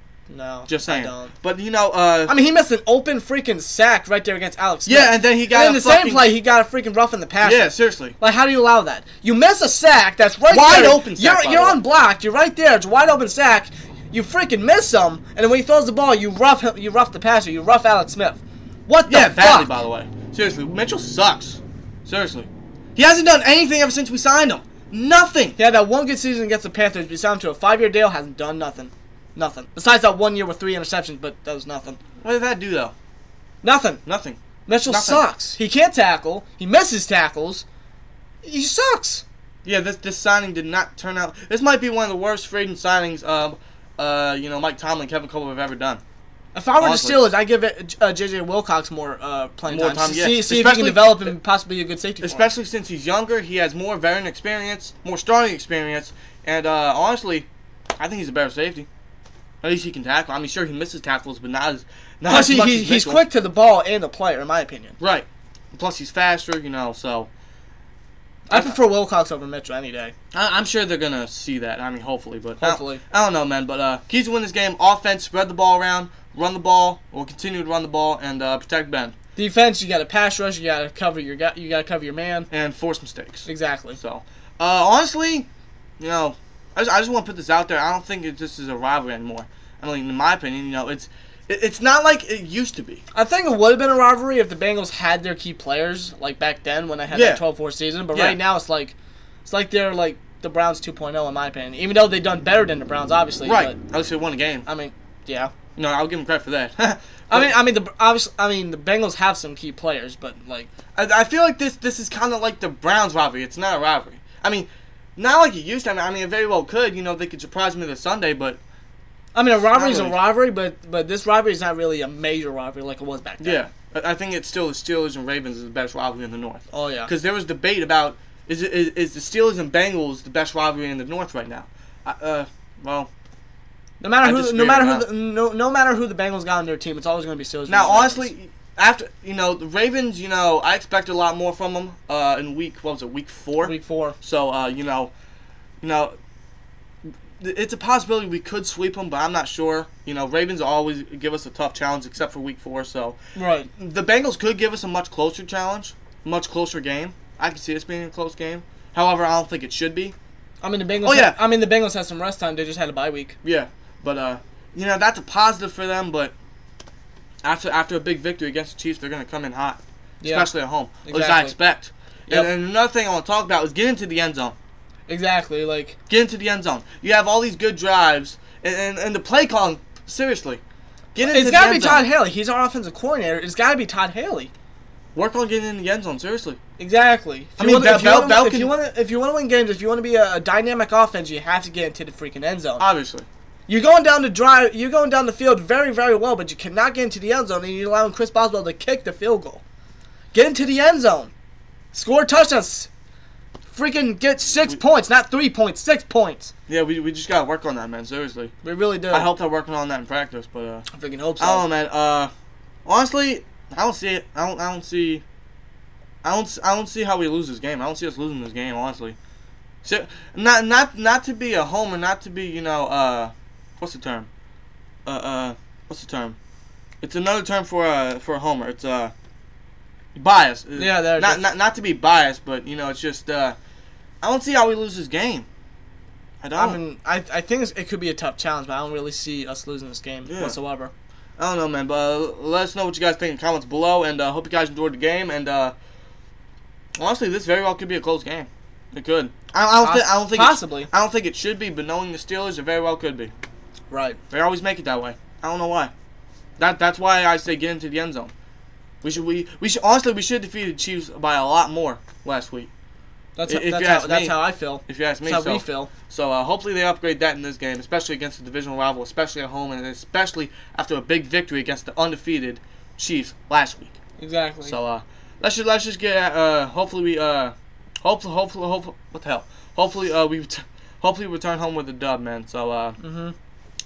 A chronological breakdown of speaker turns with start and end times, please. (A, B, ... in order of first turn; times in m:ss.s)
0:00.3-0:01.3 A
0:00.7-0:02.3 B
0:02.3-0:19.8 A
0:04.9-0:06.3 B
0:07.4-0:08.2 B
0:10.5-0:11.8 B
0:19.1-0:25.6 B
0:25.6-0:32.0 A
0:32.2-0:32.9 B
0:33.6-0:34.0 A
0:34.0-0:35.2 B
0:34.7-0:37.6 A
0:38.4-0:39.2 A
0:39.6-0:46.0 B
0:46.5-0:52.5 A
0:46.8-0:47.3 B
0:49.7-0:51.3 B
0:52.2-0:58.9 B
0:59.6-1:03.2 B
1:02.3-1:05.0 A
1:05.0-1:07.3 B
1:08.5-1:10.1 A
1:08.5-1:08.8 B
1:10.3-1:19.2 B
1:12.6-1:13.0 A
1:19.4-1:22.5 A
1:22.5-1:25.5 B
1:23.5-1:24.0 A
1:26.0-1:33.0 B
1:33.1-1:39.0 A
1:37.1-1:37.4 B
1:38.1-1:38.4 B
1:39.5-1:43.8 A
1:43.4-1:44.7 B
1:44.6-1:45.5 A
1:45.8-1:47.5 B
1:47.3-1:50.7 A
1:51.0-1:58.6 B
1:59.3-2:03.6 A
1:59.7-2:00.2 B
2:03.4-2:13.1 B
2:06.7-2:07.1 A
2:14.0-2:18.3 A
2:14.2-2:15.1 B
2:17.7-2:25.1 B
2:23.6-2:24.2 A
2:25.8-2:26.2 B
2:27.4-2:33.2 B
2:33.4-2:33.7 A
2:33.8-2:40.2 B
2:40.6-2:43.4 A
2:41.0-2:41.4 B
2:43.4-2:46.3 B
2:47.4-2:54.6 B
2:50.2-2:50.5 A
2:51.0-2:51.6 A
2:55.1-2:56.0 A
2:56.1-3:00.6 B
3:01.2-3:02.1 B
3:01.2-3:04.5 A
3:05.2-3:06.6 B
3:06.8-3:12.8 A
3:07.6-3:08.8 B
3:12.8-3:13.3 B
3:13.7-3:19.6 A
3:20.3-3:21.3 A
3:21.9-3:22.9 A
3:23.7-3:26.5 A
3:26.7-3:28.5 B
3:28.6-3:29.3 A
3:29.1-3:30.9 B
3:30.9-3:31.7 A
3:31.4-3:32.3 B
3:32.8-3:35.2 B
3:36.2-3:39.2 B
3:39.8-3:44.3 B
3:45.1-3:46.4 B
3:47.0-3:49.1 B
3:50.2-3:53.6 B
3:50.8-3:51.4 A
3:54.2-3:55.5 B
3:56.4-3:56.8 B
3:56.6-4:00.9 A
4:00.3-4:00.6 B
4:01.4-4:05.8 B
4:07.0-4:13.3 B
4:09.8-4:10.9 A
4:13.9-4:14.2 A
4:14.3-4:15.9 B
4:16.6-4:18.3 B
4:19.0-4:22.7 B
4:23.4-4:25.9 A
4:23.5-4:34.0 B
4:34.2-4:34.8 A
4:34.6-4:43.0 B
4:43.0-4:43.4 A